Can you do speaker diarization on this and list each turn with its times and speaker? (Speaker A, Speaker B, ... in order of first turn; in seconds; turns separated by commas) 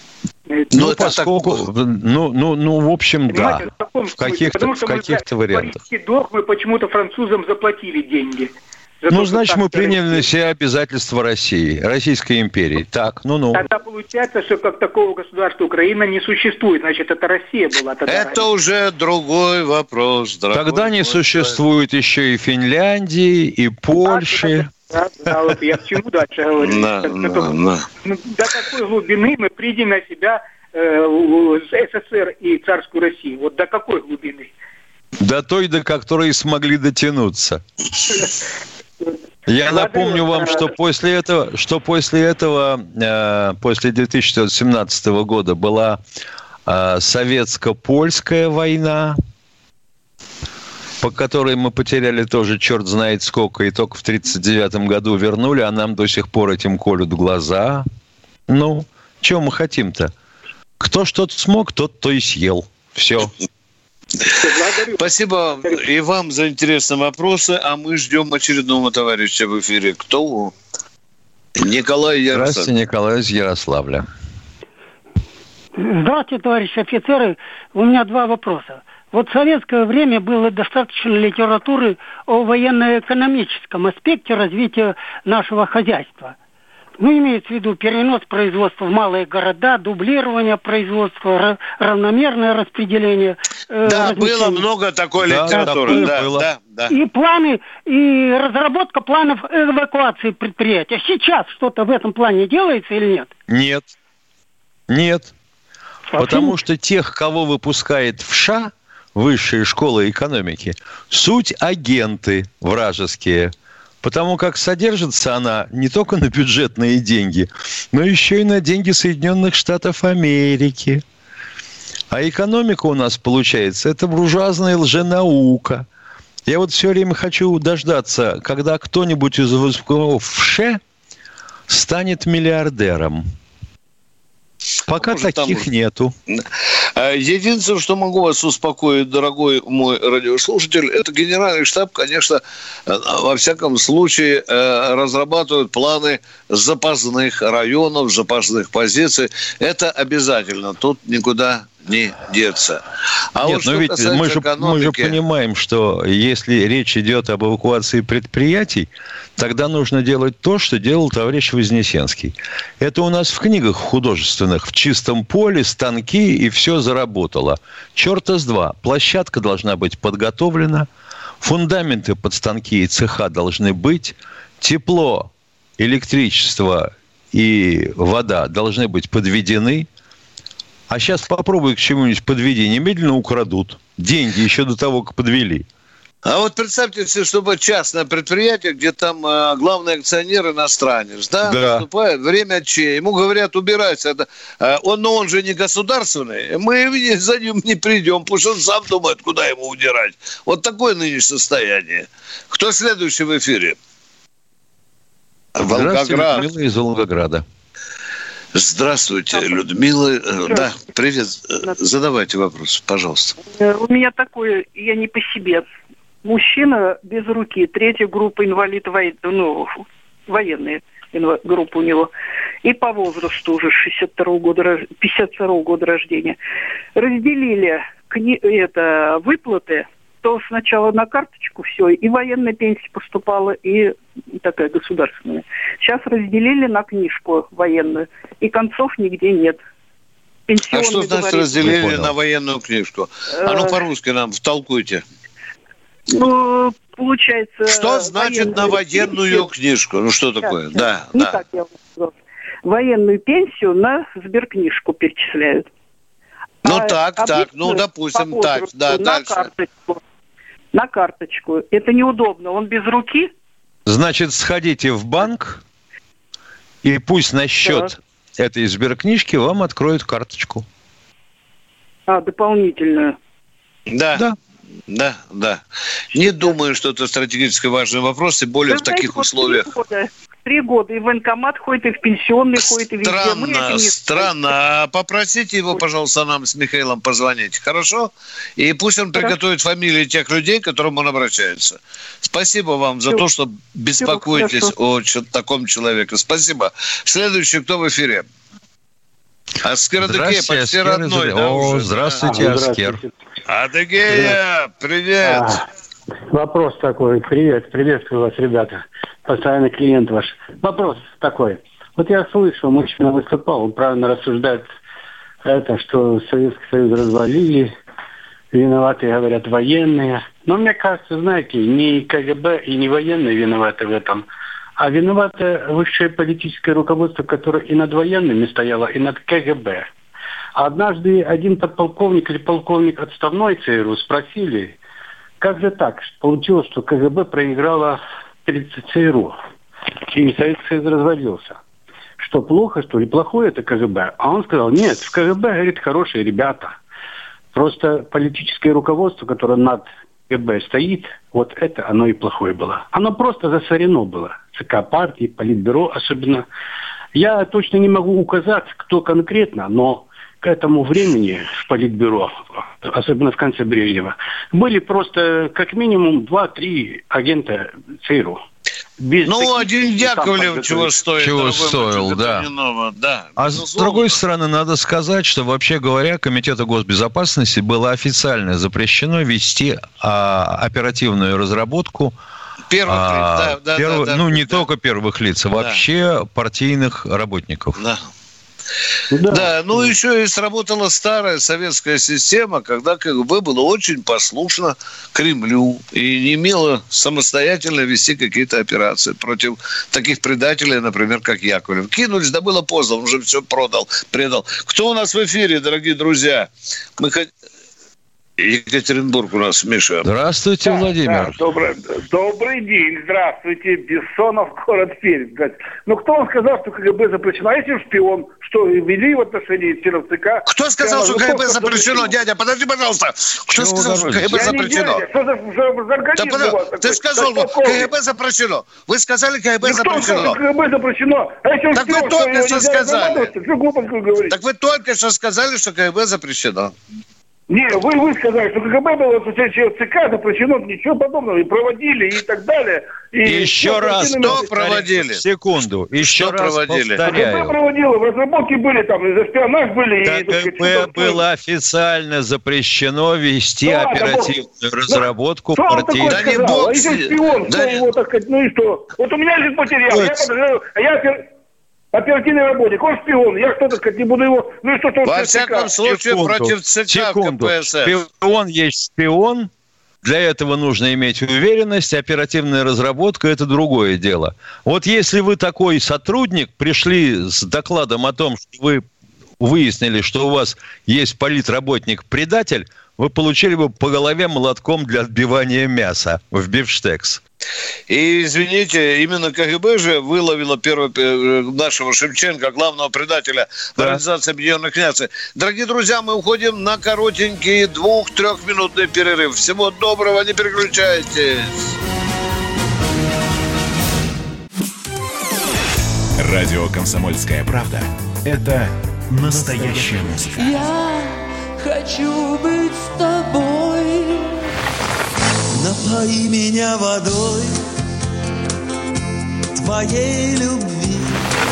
Speaker A: 0.7-3.6, Speaker B: 0.7-1.6, Speaker C: 3.3-10.3, Speaker A: 4.2-5.8, Speaker A: 9.1-13.6, Speaker C: 13.5-18.4, Speaker B: 18.1-21.6, Speaker A: 20.5-24.7, Speaker C: 24.0-34.5, Speaker B: 26.6-27.8, Speaker A: 35.2-37.6, Speaker A: 39.5-46.0, Speaker C: 39.7-40.5, Speaker A: 46.7-49.1, Speaker A: 51.0-57.8, Speaker A: 58.5-60.1, Speaker A: 60.8-63.3, Speaker C: 64.4-65.0, Speaker B: 64.9-70.5, Speaker B: 71.6-72.7, Speaker A: 72.3-74.0, Speaker D: 75.8-86.3, Speaker D: 87.0-94.6, Speaker B: 93.8-96.9, Speaker A: 95.2-96.5, Speaker D: 95.8-96.0, Speaker D: 96.9-103.3, Speaker A: 103.5-103.9, Speaker A: 104.9-105.3, Speaker D: 106.1-106.5, Speaker A: 106.2-121.0, Speaker A: 122.1-125.8, Speaker A: 126.5-130.8, Speaker A: 131.7-133.2, Speaker A: 134.9-136.1, Speaker B: 134.9-135.7, Speaker B: 136.9-152.8, Speaker B: 153.3-155.2, Speaker A: 153.4-170.9, Speaker A: 171.4-179.9, Speaker A: 180.9-185.6, Speaker B: 186.2-203.8, Speaker A: 191.4-191.8, Speaker B: 205.6-206.5, Speaker A: 205.7-207.4, Speaker B: 208.5-213.3, Speaker E: 209.3-209.6, Speaker E: 210.5-210.7, Speaker E: 213.5-215.6, Speaker E: 216.2-222.1, Speaker E: 222.6-226.4, Speaker E: 226.9-239.6, Speaker E: 240.5-241.8, Speaker B: 240.7-245.0, Speaker A: 241.6-242.1, Speaker E: 243.4-243.8, Speaker E: 246.1-249.5, Speaker B: 247.7-251.4, Speaker E: 250.4-252.1, Speaker E: 252.6-255.7, Speaker E: 256.6-260.0, Speaker B: 256.6-259.5, Speaker E: 260.7-263.3, Speaker A: 263.9-265.6, Speaker A: 266.8-270.6, Speaker E: 267.6-267.9, Speaker E: 272.1-273.1, Speaker B: 273.9-274.2, Speaker B: 274.9-279.7, Speaker E: 276.1-276.6, Speaker E: 278.7-284.3, Speaker B: 283.0-298.2, Speaker E: 294.0-294.7, Speaker B: 299.6-302.2, Speaker A: 300.0-303.0, Speaker F: 302.2-303.1, Speaker B: 303.5-305.6, Speaker F: 305.2-305.6, Speaker F: 306.3-314.7, Speaker F: 315.4-317.7, Speaker F: 318.5-324.2, Speaker F: 324.8-329.9, Speaker F: 330.6-334.8, Speaker F: 335.4-339.4, Speaker F: 340.1-341.6, Speaker F: 342.2-346.8, Speaker F: 347.5-356.4, Speaker F: 357.1-368.4, Speaker F: 369.0-370.9, Speaker B: 369.2-374.2, Speaker A: 371.2-372.5, Speaker A: 373.4-382.1, Speaker B: 382.7-384.6, Speaker A: 382.9-387.8, Speaker B: 387.8-388.0, Speaker F: 389.1-389.9, Speaker B: 389.3-407.3, Speaker B: 408.4-410.1, Speaker A: 410.0-411.4, Speaker G: 410.6-422.2, Speaker B: 420.4-425.0, Speaker A: 423.6-424.6, Speaker G: 424.2-427.9, Speaker B: 426.1-430.4, Speaker G: 429.6-434.4, Speaker B: 431.7-433.3, Speaker B: 434.3-436.7, Speaker G: 437.5-444.8, Speaker A: 443.2-447.6, Speaker B: 444.2-445.2, Speaker B: 446.0-447.0, Speaker G: 447.0-451.2, Speaker A: 450.0-456.5, Speaker G: 453.6-461.2, Speaker B: 456.1-457.9, Speaker A: 459.9-460.3, Speaker G: 461.9-465.8, Speaker B: 465.0-467.9, Speaker A: 465.8-469.5, Speaker A: 470.0-478.8, Speaker A: 479.4-487.2, Speaker B: 487.9-501.8, Speaker A: 493.8-494.0, Speaker H: 506.2-510.6, Speaker I: 510.4-514.4, Speaker I: 515.6-517.6, Speaker I: 519.5-521.2